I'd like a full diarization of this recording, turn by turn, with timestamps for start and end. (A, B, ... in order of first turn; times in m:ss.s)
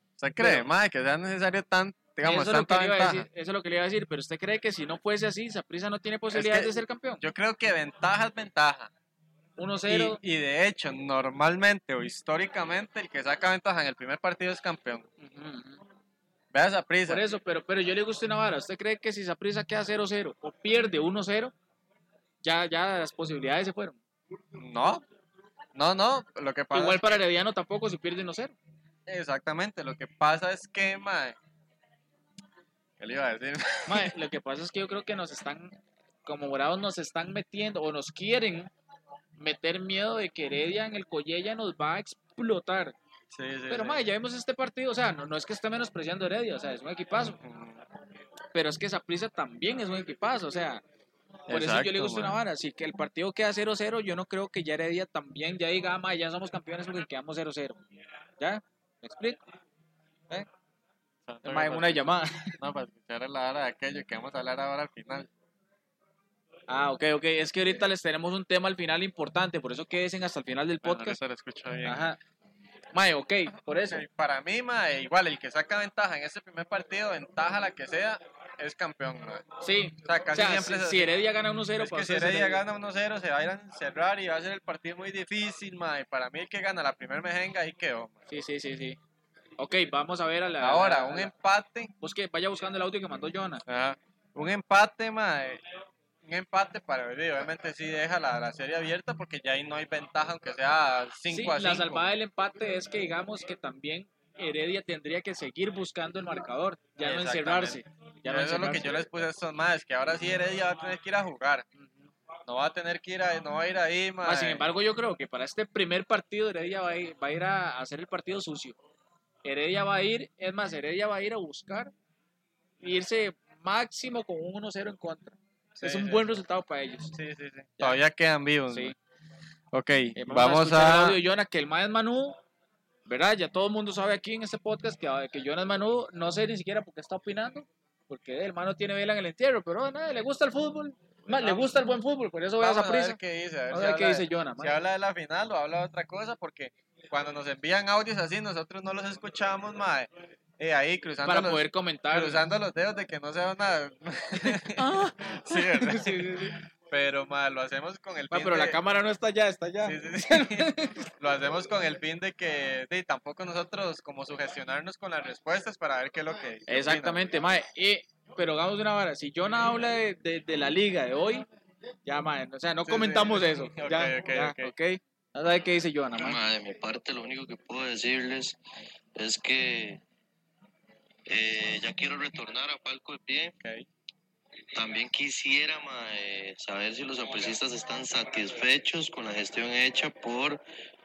0:00.2-0:03.3 A
0:00.4-0:00.7 B
0:02.2-0:07.2 B
0:06.3-0:08.9 A
0:09.6-0:10.2 B
0:09.9-0:15.1 A
0:15.2-0:15.8 B
0:16.5-0:17.2 A
0:17.1-0:21.5 B
0:22.4-0:24.0 B
0:24.6-0:25.0 A
0:25.8-0:27.2 A
0:26.7-0:28.6 B
0:29.1-0:31.4 A
0:33.0-0:34.1 A
0:33.9-0:38.7 B
0:39.4-0:43.0 B
0:43.3-0:44.0 A
0:43.7-0:47.4 B
0:47.4-0:47.8 A
0:48.5-0:50.8 B
0:51.5-0:52.4 A
0:51.5-0:57.8 B
0:58.4-0:59.4 B
1:01.3-1:02.0 A
1:01.4-1:02.6 B
1:02.6-1:05.3 A
1:06.7-1:11.2 B
1:10.8-1:12.0 A
1:11.8-1:12.2 B
1:12.9-1:14.0 B
1:13.8-1:19.4 A
1:19.6-1:22.6 B
1:20.0-1:21.1 A
1:21.8-1:28.2 A
1:28.3-1:29.0 B
1:29.6-1:31.3 B
1:30.6-1:31.9 A
1:32.0-1:33.6 B
1:33.7-1:35.6 A
1:36.2-1:42.1 A
1:41.3-1:49.0 B
1:47.0-1:51.7 A
1:51.8-1:52.0 B
1:52.5-1:54.6 A
1:54.2-1:58.8 B
1:59.4-2:01.9 B
2:02.8-2:07.1 B
2:05.8-2:06.4 A
2:07.1-2:08.9 A
2:08.7-2:09.0 B
2:09.7-2:11.2 A
2:10.2-2:12.4 B
2:13.1-2:23.2 B
2:21.4-2:21.7 A
2:22.6-2:38.8 A
2:23.7-2:24.8 B
2:31.2-2:32.4 B
2:34.7-2:36.6 B
2:38.3-2:41.0 B
2:39.8-2:47.3 A
2:46.7-2:51.4 B
2:52.1-2:56.4 B
2:52.9-2:54.7 A
2:56.2-2:58.6 C
2:59.2-3:00.0 C
3:01.3-3:03.6 C
3:03.6-3:03.9 A
3:04.7-3:10.6 C